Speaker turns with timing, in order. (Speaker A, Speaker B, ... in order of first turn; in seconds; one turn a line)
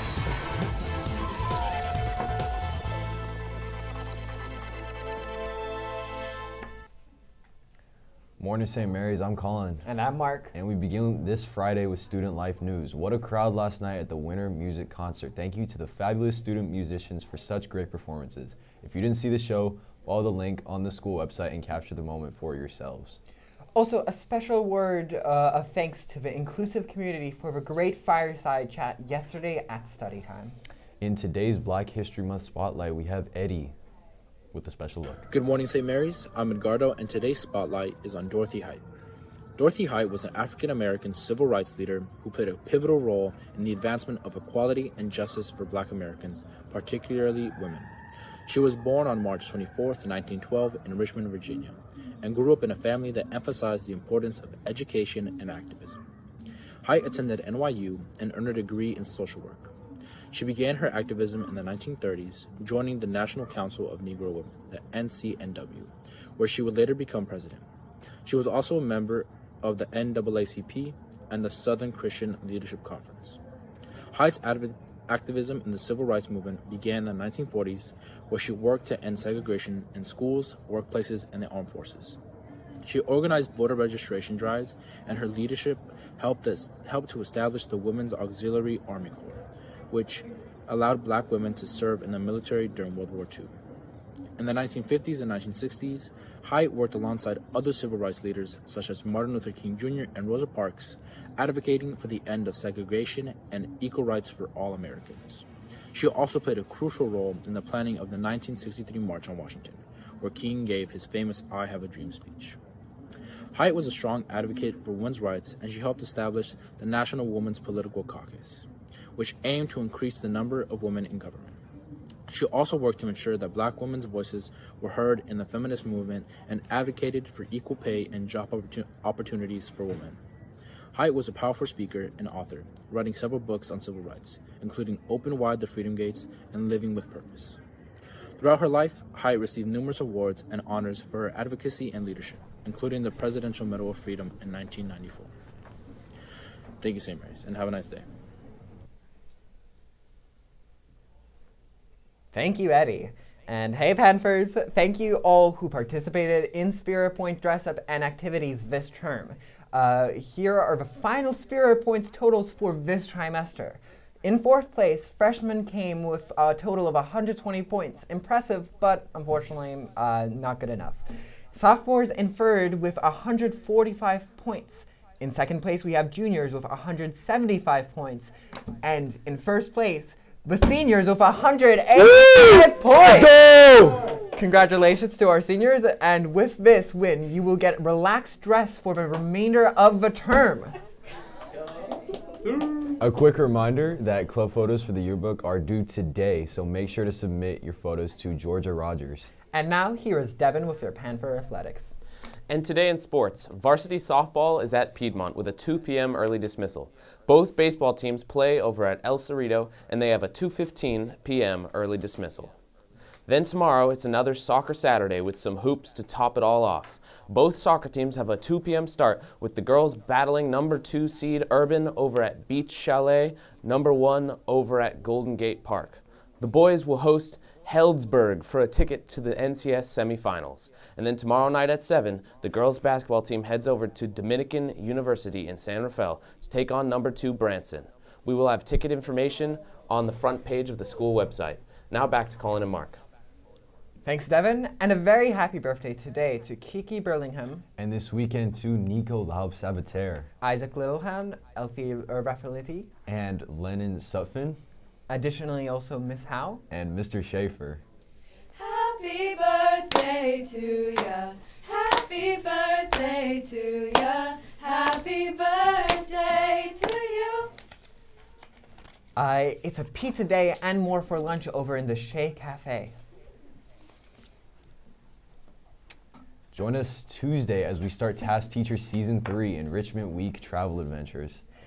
Speaker A: 8.4-9.9
Speaker B: 9.8-10.5
Speaker A: 10.5-23.2
Speaker B: 23.8-30.6
Speaker A: 31.0-33.7
Speaker A: 34.5-35.3
Speaker C: 35.3-38.8
Speaker C: 39.6-47.9
Speaker C: 48.5-56.0
Speaker C: 56.8-59.7
Speaker C: 60.3-67.7
Speaker C: 68.2-73.4
Speaker C: 74.1-82.2
Speaker C: 82.8-93.5
Speaker C: 94.4-112.6
Speaker C: 113.5-121.6
Speaker C: 122.3-130.2
Speaker C: 130.9-137.6
Speaker C: 138.4-145.3
Speaker C: 146.8-148.1
Speaker B: 152.3-171.0
Speaker B: 171.5-190.8
Speaker A: 193.0-199.3
Speaker B: 199.5-201.9
Speaker D: 202.5-212.6
Speaker D: 213.3-243.0
Speaker B: 244.0-247.7
Speaker A: 247.8-250.3
Speaker B: 250.4-252.9
Speaker A: 253.1-254.6
Speaker B: 255.1-256.6
Speaker A: 256.7-257.8
Speaker E: 258.6-267.5
Speaker B: 269.2-272.9
Speaker A: 276.5-281.4